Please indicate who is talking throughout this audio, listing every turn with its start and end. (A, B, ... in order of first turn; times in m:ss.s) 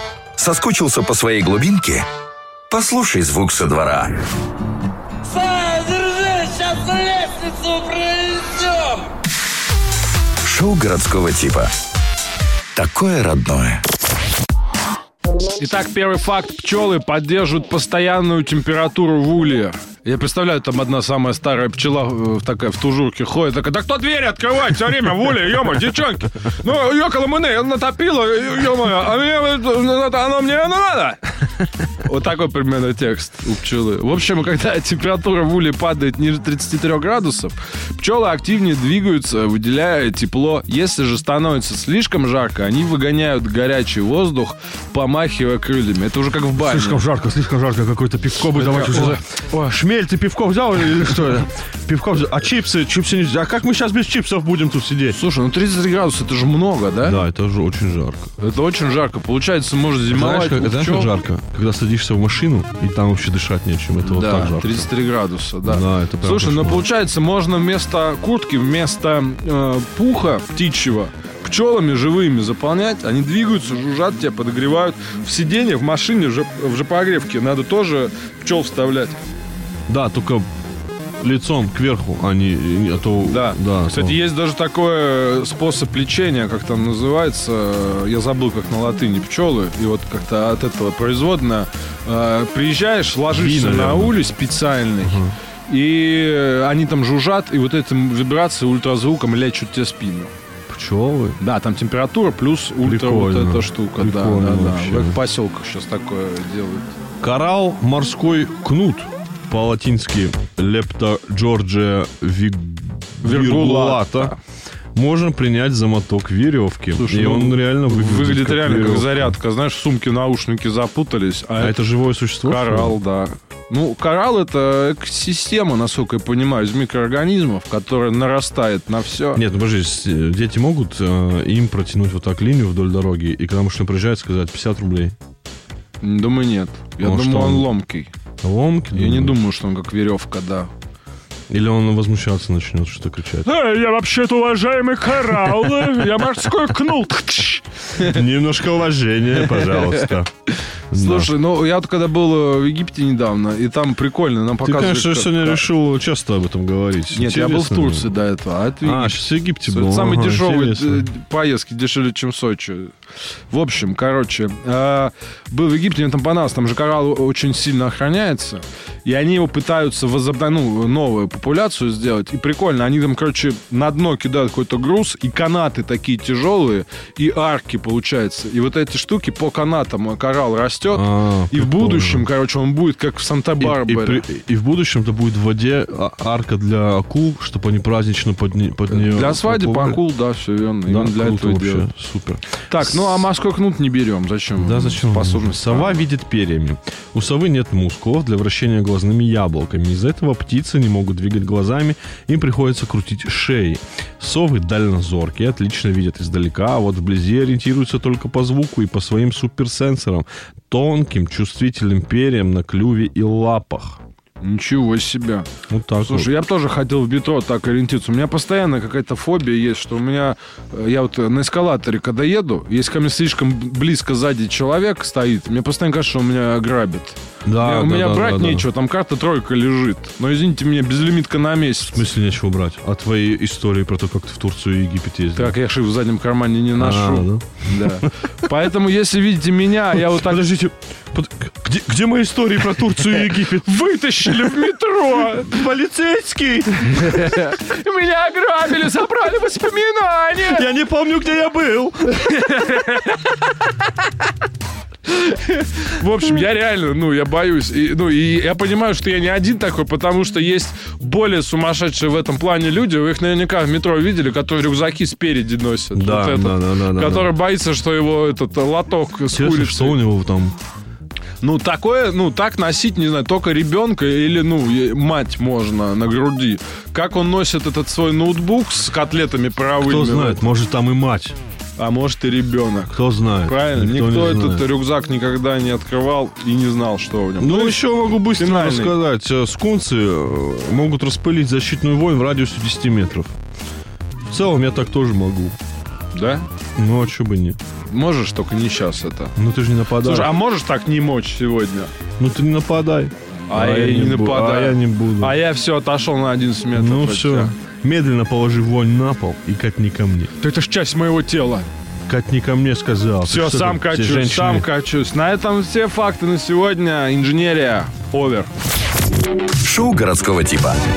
0:00.4-0:02.1 A
0:02.7-0:04.2 A
0:05.4-0:07.4 B
0:10.4-0:11.7 A
0:12.8-0:13.8 A
0:15.6-0:31.4 C
0:32.0-0:47.0 C
0:46.6-0:55.2 D
0:48.6-0:49.7 C
0:55.1-0:57.2 C
0:57.0-0:58.3 D
0:58.4-1:01.2 C
1:00.1-1:04.9 D
1:04.0-1:19.2 C
1:05.6-1:06.9 D
1:19.9-1:20.5 D
1:21.2-1:24.2 D
1:23.2-1:40.3 C
1:33.3-1:34.2 D
1:35.0-1:35.3 D
1:40.7-1:41.4 D
1:41.4-1:46.9 C
1:42.8-1:45.2 D
1:47.2-1:54.4 D
1:53.2-1:54.4 C
1:55.0-1:59.4 D
1:56.9-2:01.8 C
2:01.6-2:03.0 D
2:02.4-2:09.4 C
2:09.4-2:15.2 D
2:16.0-2:18.1 C
2:17.0-2:17.7 D
2:18.4-2:19.4 D
2:18.9-2:20.7 C
2:21.5-2:23.5 D
2:23.4-2:28.2 C
2:28.0-2:30.3 D
2:29.4-2:30.1 C
2:30.9-2:35.6 C
2:30.9-2:31.3 D
2:34.6-2:38.1 D
2:37.1-2:42.9 C
2:38.8-2:41.1 D
2:43.5-3:04.2 C
3:00.9-3:02.3 D
3:03.6-3:10.0 D
3:08.9-3:11.9 C
3:10.9-3:13.2 D
3:12.7-3:16.0 C
3:14.6-3:34.0 D
3:34.4-3:52.0 C
3:35.7-3:36.3 D
3:47.5-3:48.7 D
3:51.9-3:55.6 D
3:55.4-4:00.5 C
3:56.8-3:58.1 D
4:00.0-4:07.4 D
4:03.3-4:05.5 C
4:06.9-4:10.7 C
4:10.4-4:12.5 D
4:12.2-4:13.3 C
4:15.1-4:30.0 C
4:25.9-4:27.3 D
4:29.3-4:30.6 D
4:31.4-4:40.5 C
4:39.8-4:41.4 D
4:41.8-4:49.0 C
4:42.9-4:44.7 D
4:47.4-4:53.3 D
4:54.3-4:55.6 D
4:56.1-4:56.5 C
4:56.8-4:57.6 D
4:57.9-4:59.4 C
4:59.4-5:00.3 D
5:00.0-5:01.9 C
5:02.2-5:05.4 D
5:03.5-5:07.6 C
5:06.7-5:10.3 D
5:10.4-5:11.7 C
5:12.1-5:14.7 D
5:13.2-5:18.5 C
5:19.6-5:20.8 A